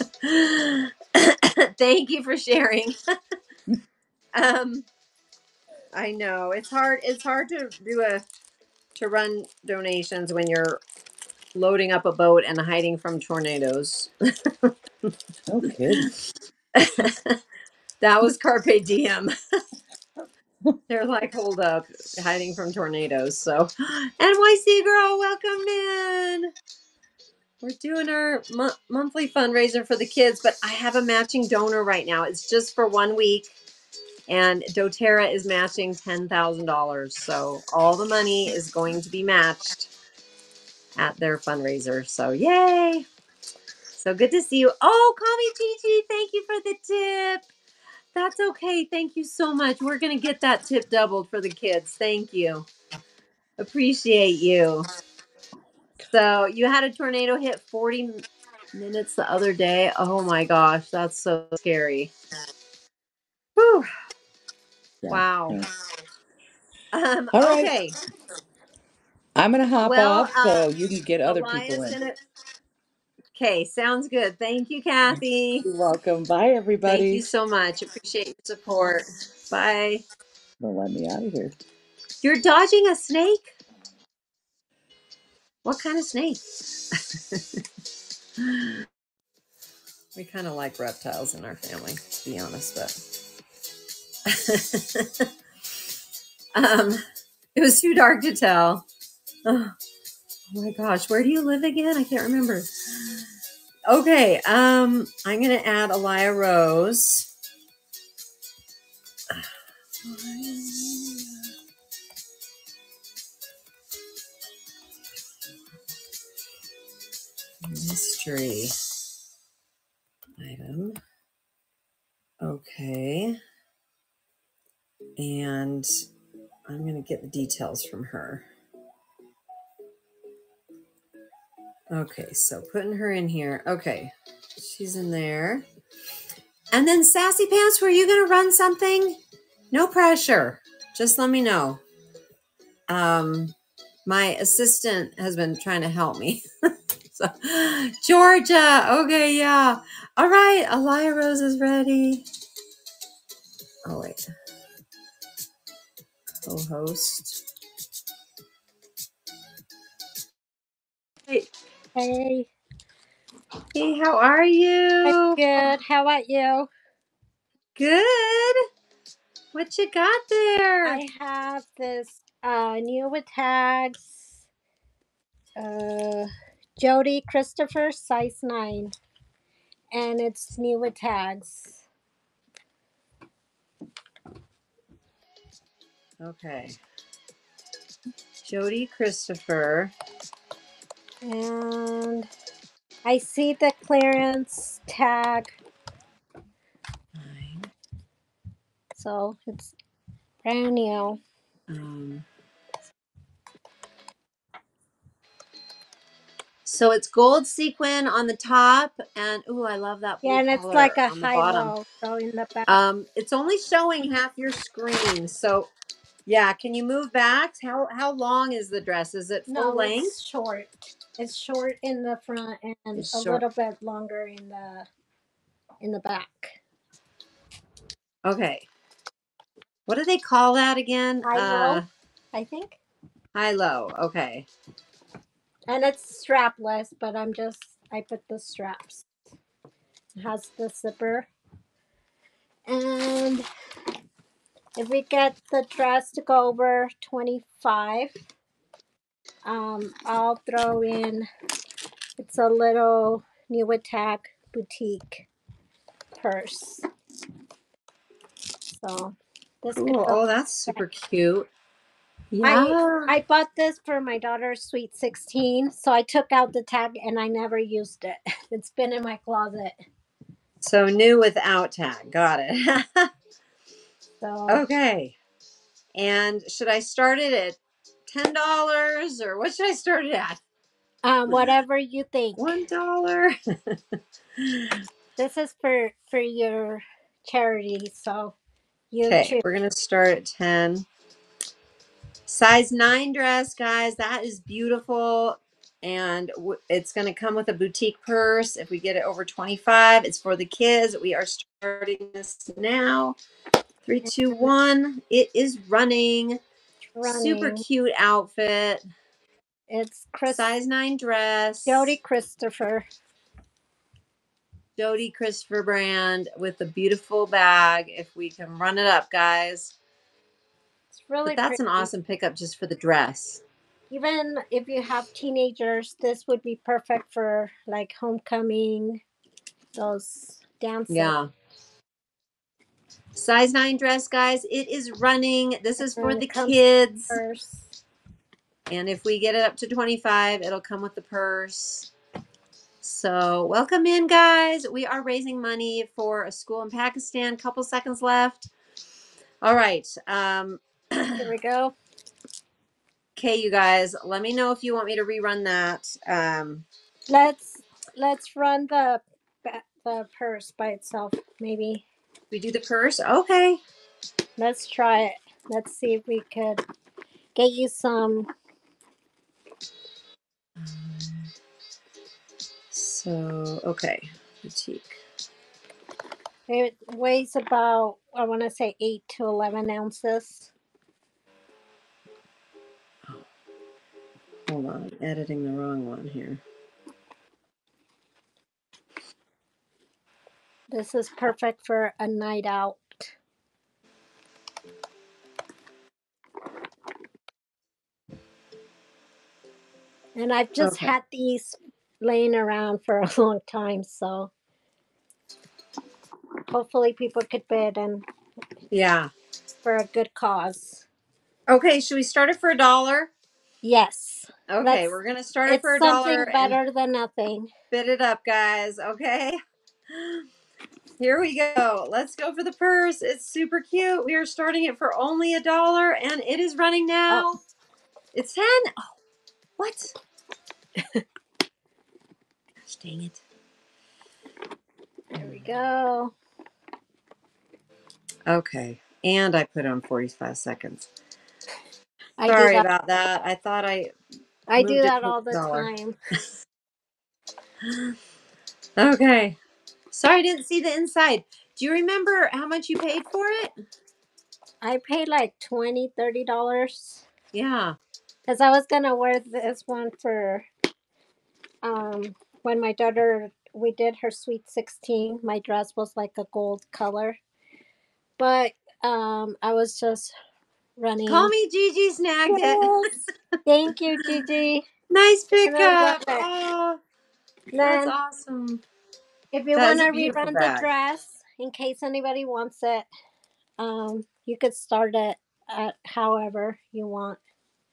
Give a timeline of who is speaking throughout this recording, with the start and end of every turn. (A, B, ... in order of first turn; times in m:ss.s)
0:00.2-0:03.0 A
0:04.4-0:04.9 A
0:05.9-0:08.2 A
0:09.0-0:10.8 A
0:11.6-0:14.7 A
0:15.5-0:16.1 B
0:16.8-0:17.4 A
0:18.0-0:19.3 A
0:20.9-0:26.5 A
0:27.6-0:33.6 A
0:34.3-0:39.9 A
0:41.0-0:43.1 A
0:44.0-0:47.5 A
0:48.2-0:52.7 A
0:53.6-0:54.9 A
0:56.1-1:02.1 A
1:03.6-1:03.9 A
1:05.0-1:05.7 B
1:05.1-1:05.6 A
1:06.9-1:07.9 A
1:07.3-1:07.8 B
1:09.4-1:12.0 B
1:09.8-1:10.7 A
1:11.3-1:12.2 A
1:13.3-1:15.7 A
1:15.6-1:17.2 B
1:16.8-1:20.0 A
1:20.6-1:21.6 B
1:22.2-1:23.5 A
1:25.6-1:26.4 A
1:28.4-1:28.9 A
1:30.2-1:33.0 A
1:34.3-1:35.3 A
1:36.6-1:37.0 A
1:37.6-1:38.9 A
1:39.5-1:39.8 A
1:40.5-1:43.3 A
1:43.9-1:47.3 A
1:50.0-1:51.5 A
1:57.6-1:58.7 A
2:00.4-2:01.0 A
2:02.4-2:03.4 A
2:05.2-2:05.9 A
2:06.7-2:08.5 A
2:11.9-2:15.6 A
2:16.7-2:19.2 A
2:19.7-2:21.8 A
2:22.9-2:23.5 A
2:24.1-2:26.4 A
2:27.1-2:32.3 A
2:33.9-2:34.2 A
2:36.4-2:37.4 A
2:42.0-2:42.5 C
2:43.7-2:45.4 A
2:45.0-2:46.7 C
2:47.8-2:48.6 A
2:49.5-2:51.0 A
2:50.8-2:54.3 C
2:55.6-2:59.0 C
2:59.9-3:01.8 C
3:06.2-3:06.8 A
3:08.4-3:09.9 A
3:11.2-3:12.3 C
3:13.0-3:15.6 C
3:17.2-3:17.7 A
3:19.0-3:19.8 C
3:20.4-3:21.2 C
3:21.7-3:22.3 A
3:26.6-3:31.7 A
3:30.2-3:32.8 C
3:32.7-3:35.7 A
3:36.3-3:40.2 A
3:39.5-3:44.9 C
3:43.0-3:43.4 A
3:45.8-3:46.6 C
3:48.2-3:48.7 A
3:49.9-3:51.9 A
3:51.2-3:51.8 C
3:52.3-3:52.8 C
3:53.4-3:54.5 A
3:55.7-3:59.1 C
4:00.2-4:01.3 C
4:02.7-4:03.5 C
4:04.8-4:08.2 C
4:09.4-4:11.3 C
4:12.2-4:15.3 C
4:16.2-4:16.9 C
4:18.8-4:20.2 C
4:19.8-4:21.5 A
4:22.3-4:23.1 A
4:22.4-4:29.8 C
4:30.6-4:33.1 A
4:34.2-4:34.6 C
4:34.5-4:35.2 A
4:36.0-4:37.6 A
4:38.1-4:40.4 A
4:41.0-4:42.4 C
4:42.4-4:43.8 A
4:44.4-4:44.8 A
4:45.2-4:48.4 C
4:48.9-4:49.4 C
4:49.1-4:50.9 A
4:52.3-5:03.2 A
5:03.9-5:06.4 A
5:07.0-5:07.6 C
5:07.0-5:08.8 A
5:09.7-5:10.4 C
5:10.3-5:11.9 A
5:11.7-5:12.9 C
5:14.8-5:19.8 A
5:20.9-5:21.9 C
5:21.2-5:23.4 A
5:23.9-5:29.0 C
5:29.8-5:31.1 C
5:30.9-5:31.3 A
5:33.2-5:37.2 A
5:35.8-5:36.6 C
5:37.1-5:37.7 C
5:38.7-5:41.9 A
5:42.8-5:48.5 A
5:49.4-5:51.2 A
5:51.2-5:51.8 C
5:53.2-5:56.7 A
5:57.1-6:01.8 C
6:02.3-6:03.6 A
6:04.4-6:06.6 C
6:07.4-6:08.3 C
6:10.6-6:11.3 A
6:12.7-6:15.0 A
6:16.5-6:20.5 C
6:24.5-6:26.4 A
6:30.7-6:33.1 C
6:40.2-6:44.3 C
6:40.6-6:40.9 A
6:46.5-6:48.0 C
6:48.7-6:49.1 A
6:49.6-6:50.8 C
6:51.5-6:53.1 A
6:53.6-6:54.9 C
6:54.5-6:56.6 A
6:55.5-6:57.5 C
6:57.7-6:59.4 A
6:59.9-7:00.2 A
7:01.0-7:07.4 A
7:07.1-7:07.4 C
7:08.1-7:08.9 A
7:09.6-7:09.9 A
7:12.6-7:13.2 A
7:15.2-7:16.1 C
7:18.3-7:20.9 A
7:22.2-7:22.7 C
7:22.2-7:23.9 A
7:24.5-7:26.0 C
7:24.6-7:25.7 A
7:27.6-7:27.9 A
7:28.8-7:29.4 A
7:29.9-7:33.5 A
7:34.6-7:37.0 C
7:37.3-7:37.8 A
7:38.3-7:40.5 C
7:41.6-7:47.2 C
7:48.2-7:50.2 C
7:50.8-7:51.3 C
7:51.1-7:52.9 A
7:52.3-7:52.9 C
7:53.4-7:54.6 C
7:54.9-7:56.8 A
7:55.5-7:56.3 C
7:57.5-7:58.6 A
7:57.5-7:58.0 C
7:59.3-8:02.9 C
7:59.6-8:00.7 A
8:03.6-8:07.2 C